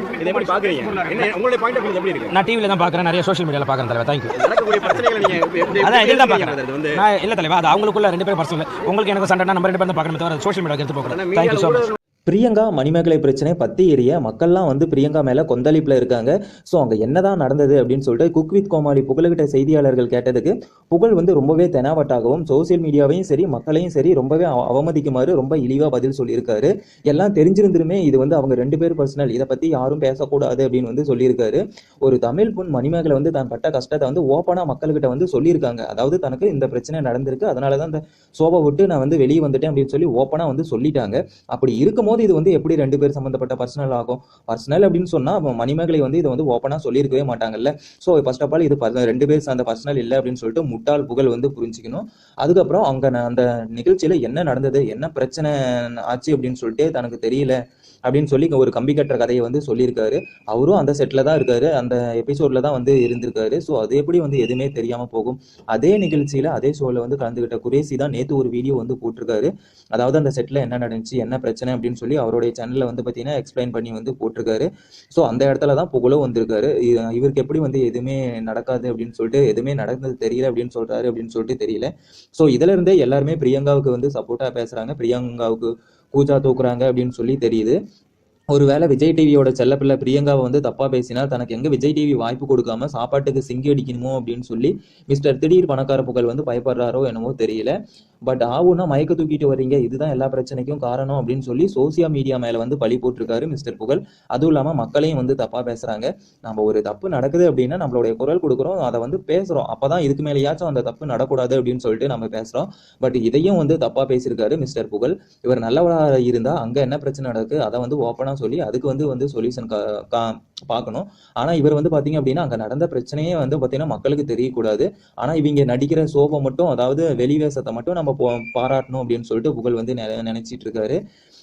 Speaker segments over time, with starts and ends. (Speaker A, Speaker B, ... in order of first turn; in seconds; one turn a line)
Speaker A: 0.2-2.4
Speaker B: 2.3-4.3
Speaker A: 4.3-7.0
Speaker B: 5.8-11.8
Speaker A: 11.1-12.0
Speaker C: 12.3-87.8
Speaker C: 88.5-97.7
Speaker C: 98.2-130.9